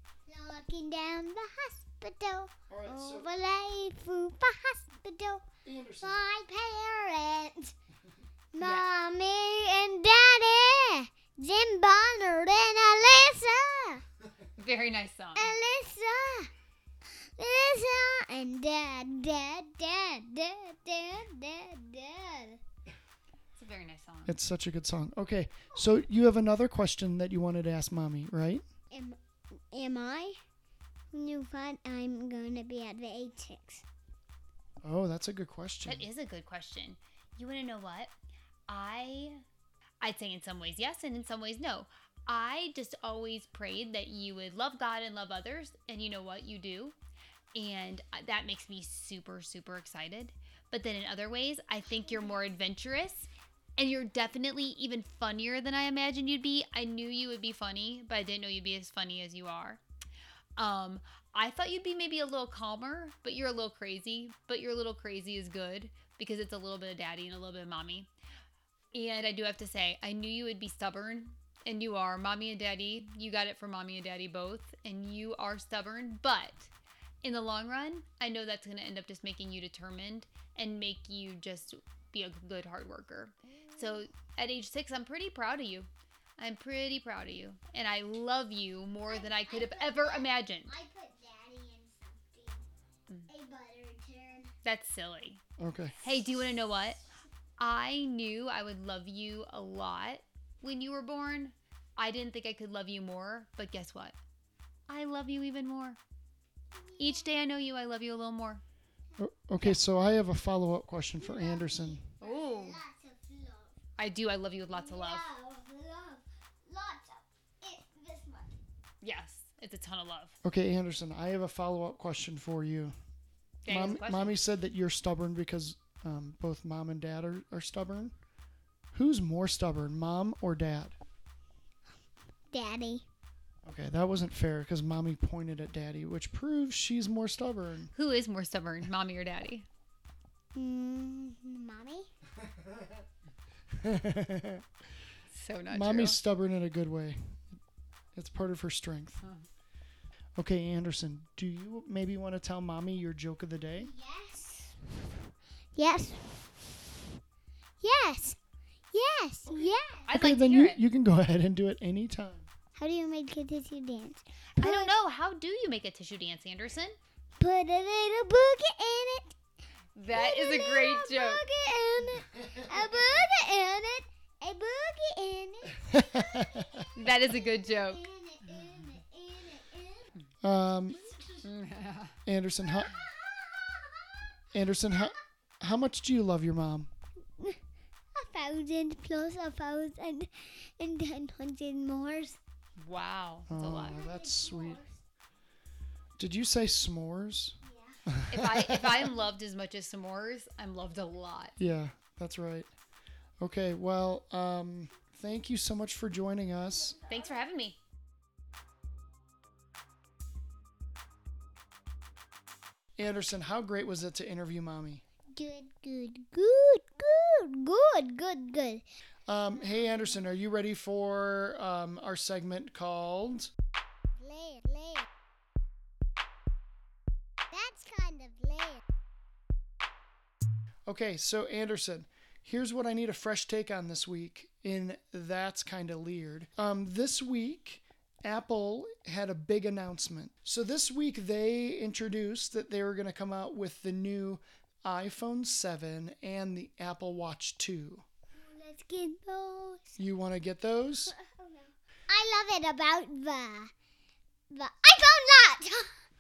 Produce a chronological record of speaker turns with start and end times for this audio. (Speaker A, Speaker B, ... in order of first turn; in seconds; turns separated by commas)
Speaker A: 0.3-5.5, Speaker B: 2.7-3.3, Speaker B: 5.6-6.2, Speaker A: 6.0-7.7, Speaker A: 8.5-14.0, Speaker C: 8.6-8.9, Speaker C: 14.6-15.5, Speaker A: 15.3-16.5, Speaker A: 17.2-22.6, Speaker C: 23.6-24.3, Speaker B: 24.2-28.6, Speaker A: 28.9-29.2, Speaker A: 29.7-30.4, Speaker A: 31.1-33.8, Speaker B: 34.8-36.1, Speaker C: 35.9-38.1, Speaker C: 38.7-39.4, Speaker C: 40.0-46.9, Speaker C: 47.5-59.8, Speaker C: 60.6-68.1, Speaker C: 68.9-76.7, Speaker C: 77.2-90.7, Speaker A: 89.1-92.7, Speaker A: 93.3-94.5, Speaker C: 94.6-95.4, Speaker B: 95.6-96.0, Speaker C: 96.0-97.0, Speaker C: 97.6-104.2, Speaker C: 104.9-106.0, Speaker A: 106.8-107.2, Speaker C: 107.0-108.6, Speaker B: 109.2-112.0, Speaker A: 111.2-113.8, Speaker C: 112.2-112.8, Speaker C: 114.0-115.3, Speaker A: 114.7-118.5, Speaker C: 119.0-120.4, Speaker B: 120.4-122.9, Speaker C: 123.6-124.3, Speaker B: 123.7-128.1, Speaker B: 128.9-130.9, Speaker A: 132.5-133.1, Speaker B: 133.6-137.9, Speaker C: 137.9-139.7, Speaker A: 140.5-142.1, Speaker B: 142.4-143.0, Speaker B: 143.7-144.6, Speaker C: 145.3-146.2, Speaker B: 145.7-147.5, Speaker B: 148.1-149.2, Speaker B: 150.4-153.9, Speaker A: 153.8-155.0, Speaker A: 155.8-157.0, Speaker A: 157.8-158.4, Speaker A: 158.9-160.1, Speaker C: 160.1-160.8, Speaker B: 160.1-162.5, Speaker A: 162.8-164.9, Speaker C: 164.6-167.0, Speaker A: 167.4-169.3, Speaker C: 170.0-171.4, Speaker A: 170.1-180.1, Speaker B: 175.8-176.9, Speaker C: 176.9-178.0, Speaker B: 180.4-181.2, Speaker A: 181.1-181.4, Speaker C: 181.4-182.2, Speaker B: 182.2-182.9, Speaker A: 182.8-184.2, Speaker B: 184.5-186.9, Speaker A: 188.1-192.4, Speaker C: 192.8-194.0, Speaker B: 193.5-194.8, Speaker A: 193.6-195.0, Speaker B: 196.2-199.2, Speaker A: 197.6-198.0, Speaker C: 198.3-201.5, Speaker B: 201.6-202.7, Speaker B: 203.4-207.0, Speaker A: 206.8-207.4, Speaker C: 207.1-207.8, Speaker B: 213.0-215.0, Speaker A: 215.3-218.8, Speaker B: 219.3-223.5, Speaker A: 224.2-225.1, Speaker A: 227.5-228.8, Speaker B: 230.8-248.0, Speaker A: 248.3-250.0, Speaker B: 250.0-251.1, Speaker A: 251.1-253.7, Speaker A: 254.5-256.0